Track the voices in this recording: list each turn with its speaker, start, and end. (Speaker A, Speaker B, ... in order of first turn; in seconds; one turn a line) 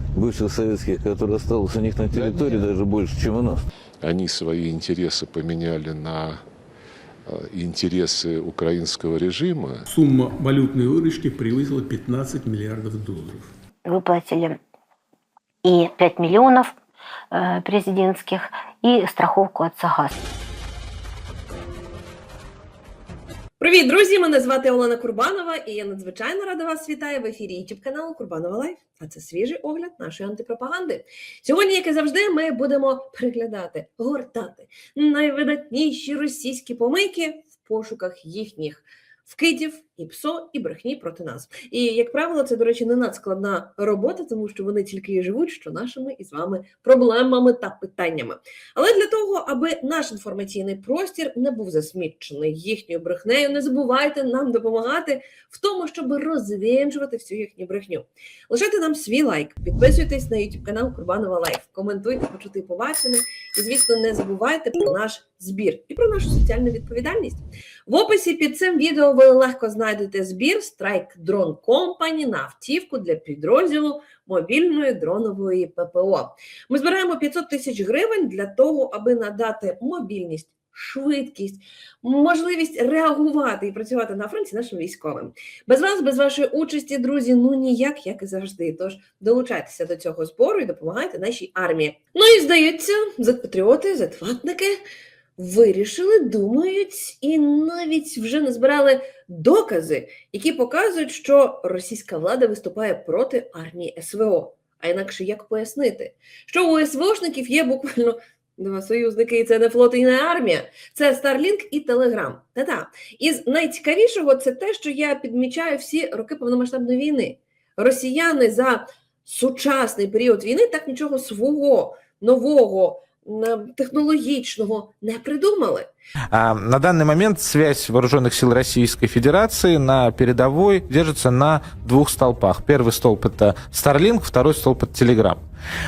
Speaker A: 0.1-3.6
Speaker B: 2.1-2.6
Speaker C: 4.0-6.4
Speaker C: 7.3-9.8
Speaker B: 9.9-13.5
Speaker D: 13.8-14.6
Speaker D: 15.6-16.7
Speaker D: 17.3-20.2
Speaker E: 23.6-94.8
Speaker E: 95.4-125.9
Speaker F: 126.3-135.4